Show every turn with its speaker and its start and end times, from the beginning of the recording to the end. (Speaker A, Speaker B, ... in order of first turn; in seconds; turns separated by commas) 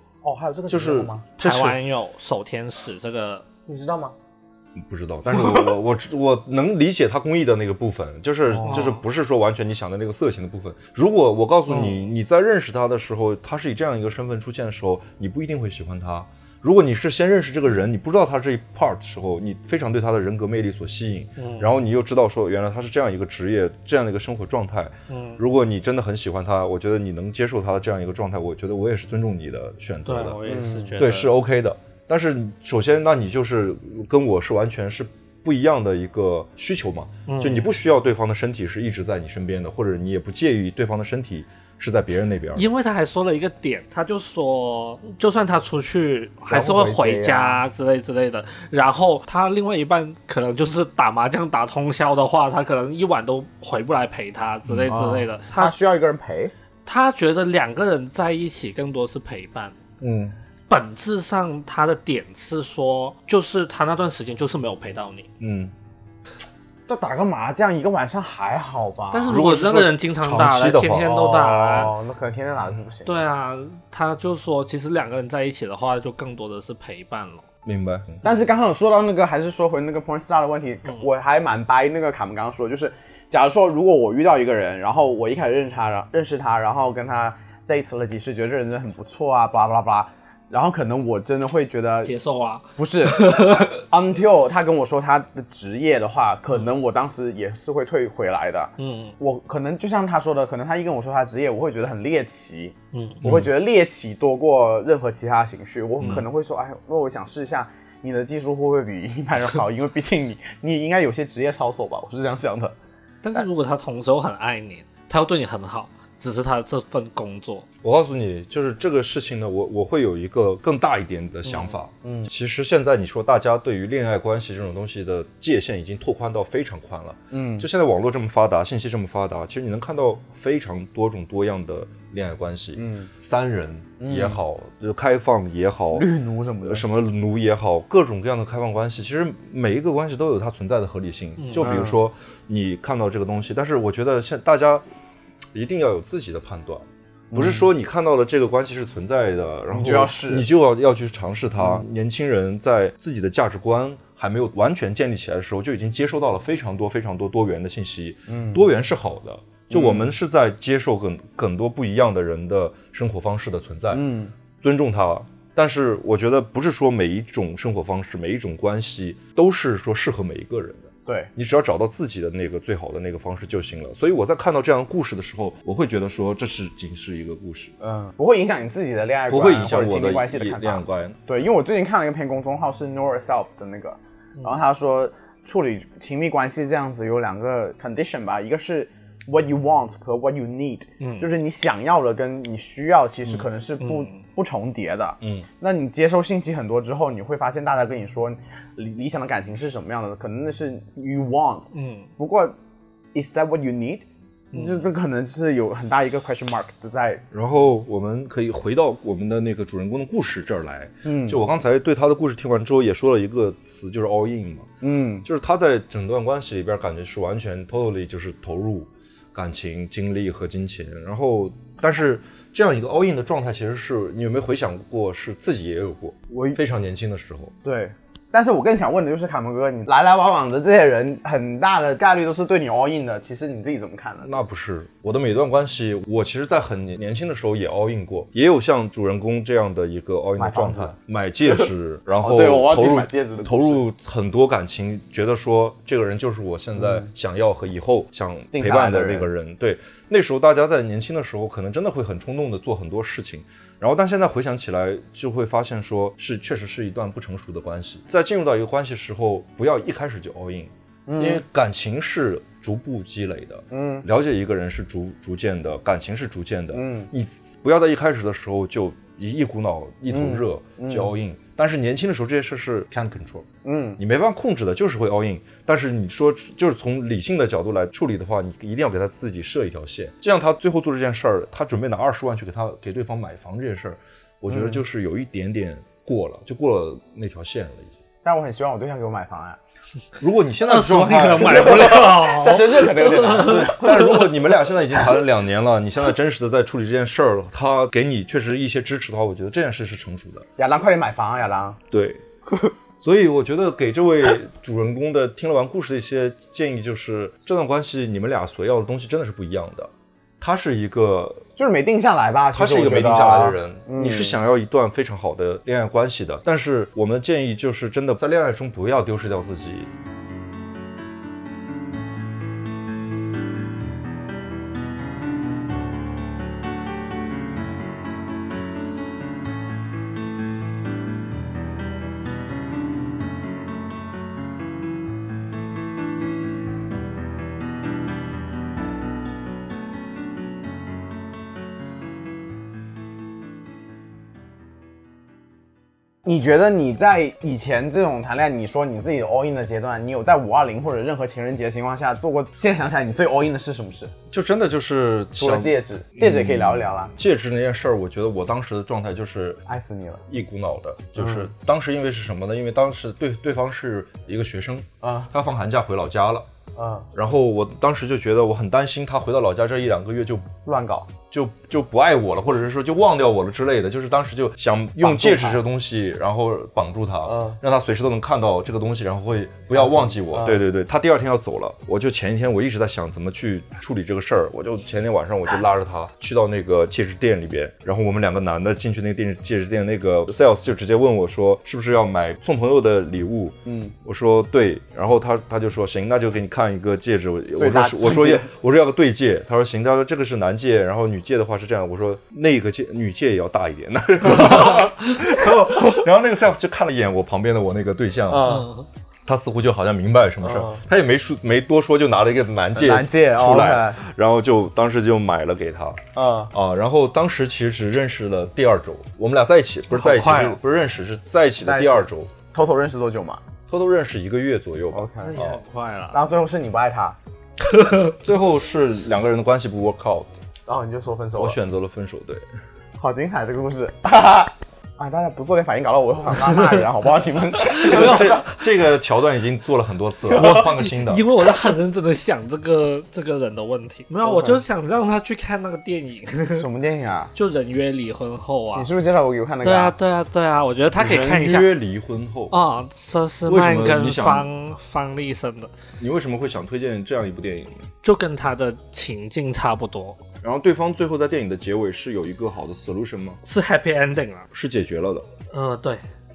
Speaker A: 0.2-1.2, Speaker B: 0.7-1.8, Speaker C: 1.4-3.5, Speaker A: 3.7-4.1, Speaker B: 4.8-30.4, Speaker A: 8.5-8.9, Speaker C: 8.6-9.0, Speaker C: 11.7-12.0, Speaker C: 21.4-21.7, Speaker C: 25.1-25.4, Speaker C: 30.1-31.3, Speaker A: 30.5-31.0, Speaker B: 31.0-42.6, Speaker C: 37.3-37.7, Speaker C: 42.5-55.7, Speaker A: 46.5-47.6, Speaker B: 54.7-55.0, Speaker A: 54.9-56.5, Speaker C: 56.9-59.8, Speaker B: 60.0-60.4, Speaker C: 60.7-65.3, Speaker B: 65.4-65.7, Speaker A: 66.9-69.4, Speaker C: 69.1-71.9, Speaker B: 69.3-71.1, Speaker A: 71.0-73.2, Speaker C: 73.1-77.5, Speaker B: 77.7-78.2, Speaker A: 78.2-92.2, Speaker C: 92.0-93.8, Speaker A: 92.8-112.8, Speaker C: 98.8-99.2, Speaker C: 102.9-103.2, Speaker B: 103.2-103.5, Speaker C: 113.2-117.7, Speaker B: 117.8-136.1, Speaker A: 122.0-122.3, Speaker A: 127.3-127.7, Speaker A: 132.8-133.1, Speaker A: 134.0-134.4, Speaker A: 135.9-136.8, Speaker B: 136.7-144.8, Speaker C: 141.4-141.8, Speaker A: 141.6-142.0, Speaker B: 145.5-164.1, Speaker A: 147.3-147.7, Speaker A: 149.7-150.5, Speaker A: 158.3-158.6, Speaker A: 159.7-160.1, Speaker A: 163.9-164.3, Speaker B: 164.6-177.7, Speaker A: 177.8-202.6, Speaker B: 179.3-181.2, Speaker C: 191.0-191.3, Speaker C: 193.8-194.1, Speaker B: 195.2-195.5, Speaker C: 201.7-202.1, Speaker A: 203.1-207.2, Speaker C: 204.5-204.8, Speaker B: 207.3-214.7, Speaker A: 211.0-211.4, Speaker A: 214.8-215.3, Speaker B: 215.2-227.5, Speaker A: 226.3-226.6, Speaker A: 227.6-234.3, Speaker B: 234.2-273.5, Speaker A: 240.4-240.9, Speaker A: 242.2-243.8, Speaker A: 246.8-247.1, Speaker A: 248.5-249.3, Speaker A: 261.1-261.4, Speaker A: 263.7-264.1, Speaker A: 266.7-267.1, Speaker A: 270.1-271.1, Speaker A: 273.6-274.0, Speaker B: 274.0-287.9, Speaker A: 284.5-284.8, Speaker A: 288.2-289.6, Speaker B: 290.2-291.9, Speaker C: 290.6-293.7, Speaker A: 291.5-294.2, Speaker B: 293.3-300.5, Speaker A: 300.6-301.8, Speaker B: 301.9-302.2, Speaker B: 303.0-311.5, Speaker A: 311.6-314.4, Speaker B: 312.5-319.9, Speaker A: 346.2-354.1, Speaker B: 354.3-359.6, Speaker A: 355.4-357.1, Speaker A: 359.7-360.2, Speaker B: 360.3-366.5, Speaker A: 361.2-361.5, Speaker A: 365.0-365.3, Speaker A: 366.8-367.1, Speaker B: 367.1-370.5, Speaker A: 370.6-371.1, Speaker B: 371.3-408.6, Speaker A: 375.0-375.6, Speaker A: 377.2-377.6, Speaker A: 379.7-380.6, Speaker A: 393.6-393.9, Speaker A: 397.6-398.5, Speaker A: 408.3-408.7, Speaker C: 408.5-408.9, Speaker B: 409.3-416.0, Speaker A: 410.4-410.8, Speaker A: 412.8-414.0, Speaker A: 416.1-416.5, Speaker B: 416.5-422.3, Speaker C: 419.9-420.6, Speaker A: 421.6-423.4, Speaker B: 423.7-425.6, Speaker A: 424.9-425.4, Speaker C: 425.2-426.2, Speaker A: 426.1-427.2, Speaker C: 427.7-428.1, Speaker B: 428.2-430.3, Speaker A: 430.7-431.6, Speaker B: 431.4-432.4, Speaker A: 433.0-438.6, Speaker C: 437.8-438.3, Speaker B: 437.8-441.3, Speaker C: 440.4-446.7, Speaker A: 444.2-444.6, Speaker A: 446.6-447.3, Speaker C: 447.4-448.9, Speaker A: 448.8-449.9, Speaker C: 449.6-451.7, Speaker B: 451.0-452.6, Speaker C: 452.5-455.7, Speaker B: 453.5-454.5, Speaker B: 456.0-457.9, Speaker C: 458.0-460.2, Speaker B: 460.4-463.4, Speaker C: 463.4-464.5, Speaker B: 464.5-465.3, Speaker C: 465.5-466.0